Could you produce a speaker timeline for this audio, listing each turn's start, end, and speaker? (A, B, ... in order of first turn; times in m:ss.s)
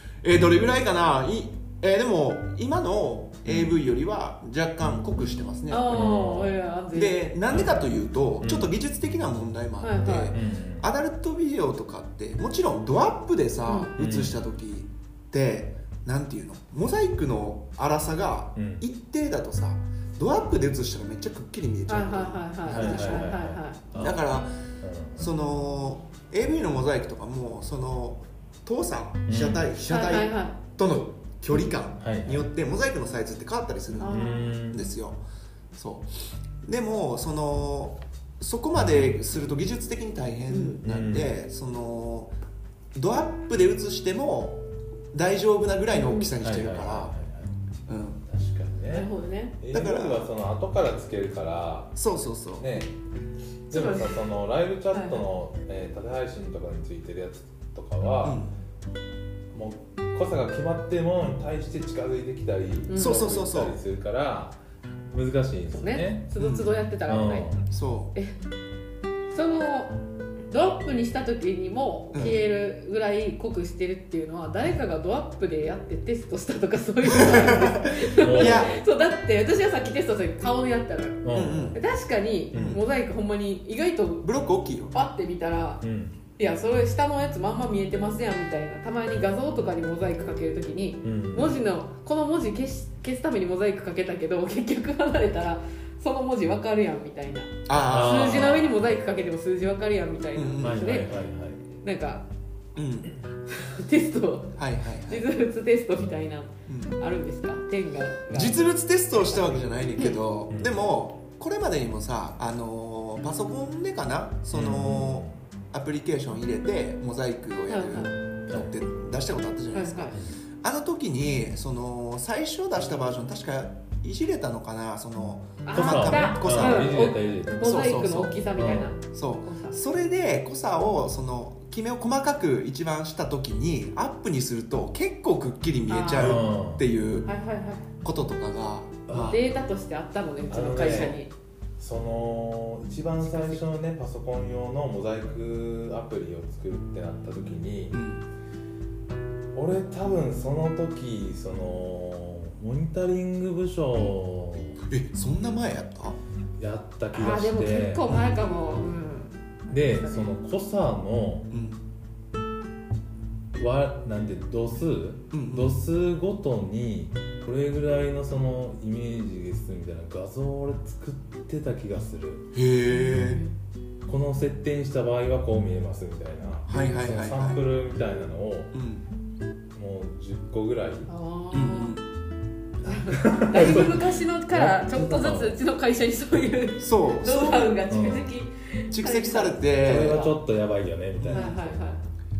0:00.2-0:06.1 A
0:03.5-0:03.8 B
0:05.7-0:07.2 C
0:05.9-0:06.6 B
0:06.9-0:23.4 A
0:07.5-0:07.8 B
0:08.4-0:08.7 B
0:09.8-0:10.3 C
0:10.3-0:10.9 B
0:13.7-0:13.9 C
0:14.0-0:14.4 B
0:18.6-0:18.8 B
0:21.9-0:23.8 C
0:22.7-0:24.2 B
0:24.0-0:24.5 A
0:24.8-0:25.3 B
0:25.2-0:35.2 A
0:29.3-0:29.7 B
0:29.9-0:30.6 C
0:32.0-0:32.5 B
0:34.0-0:34.6 C
0:34.2-0:34.9 B
0:35.7-0:42.3 A
0:40.5-0:40.8 C
0:40.8-0:41.3 B
0:43.0-0:44.6 A
0:45.1-0:47.1 A
0:46.0-0:46.3 C
0:46.4-0:47.6 B
0:47.9-0:48.2 A
0:48.3-0:52.9 B
0:48.9-0:49.6 C
0:49.7-0:50.3 A
0:52.0-0:52.7 A
0:53.7-0:58.4 B
0:53.7-0:54.2 C
0:54.9-0:55.2 C
0:58.2-0:58.5 A
0:59.5-1:04.6 B
1:02.9-1:03.3 C
1:03.0-1:03.8 A
1:05.1-1:06.3 B
1:05.7-1:07.5 C
1:06.4-1:06.7 A
1:07.1-1:07.7 B
1:07.7-1:08.1 A
1:09.3-1:10.0 C
1:10.5-1:21.2 C
1:12.1-1:12.4 A
1:17.1-1:18.8 A
1:18.2-1:18.8 B
1:21.2-1:21.8 B
1:21.3-1:21.8 A
1:21.7-1:24.3 C
1:22.5-1:22.8 B
1:22.5-1:22.8 A
1:24.2-1:25.0 A
1:24.9-1:25.8 C
1:25.8-1:26.2 B
1:26.4-1:41.1 C
1:31.0-1:31.6 B
1:37.7-1:38.7 A
1:37.9-1:38.7 B
1:40.4-1:40.9 A
1:40.6-1:41.6 B
1:41.7-1:42.2 C
1:42.8-1:43.1 A
1:43.5-1:48.6 C
1:44.6-1:45.3 A
1:46.7-1:47.0 A
1:48.3-2:07.0 A
1:54.5-1:55.4 B
1:57.7-1:58.2 C
1:59.7-2:00.2 C
2:05.6-2:09.8 C
2:05.7-2:07.7 B
2:07.6-2:08.4 A
2:08.6-2:08.9 B
2:09.1-2:17.3 A
2:15.9-2:16.4 C
2:16.2-2:16.9 B
2:17.2-2:17.9 C
2:18.0-2:19.4 A
2:19.1-2:19.4 B
2:19.1-2:21.3 C
2:20.5-2:21.2 B
2:21.8-2:28.0 B
2:23.2-2:23.6 C
2:27.9-2:28.2 A
2:29.5-2:34.8 B
2:34.8-2:36.2 A
2:36.6-2:38.1 B
2:37.1-2:40.3 C
2:39.7-2:41.5 B
2:41.5-2:41.8 A
2:43.6-2:52.5 B
2:45.3-2:45.8 A
2:52.5-2:53.4 A
2:52.9-2:53.5 C
2:54.0-2:58.7 B
2:56.7-2:57.6 A
2:58.7-2:59.1 A
2:59.8-3:01.1 B
3:01.1-3:02.0 C
3:01.5-3:02.1 A
3:02.8-3:10.4 C
3:03.1-3:05.6 B
3:06.8-3:07.8 A
3:07.9-3:08.3 B
3:08.9-3:10.3 A
3:09.8-3:11.8 B
3:11.2-3:11.6 A
3:11.3-3:12.1 C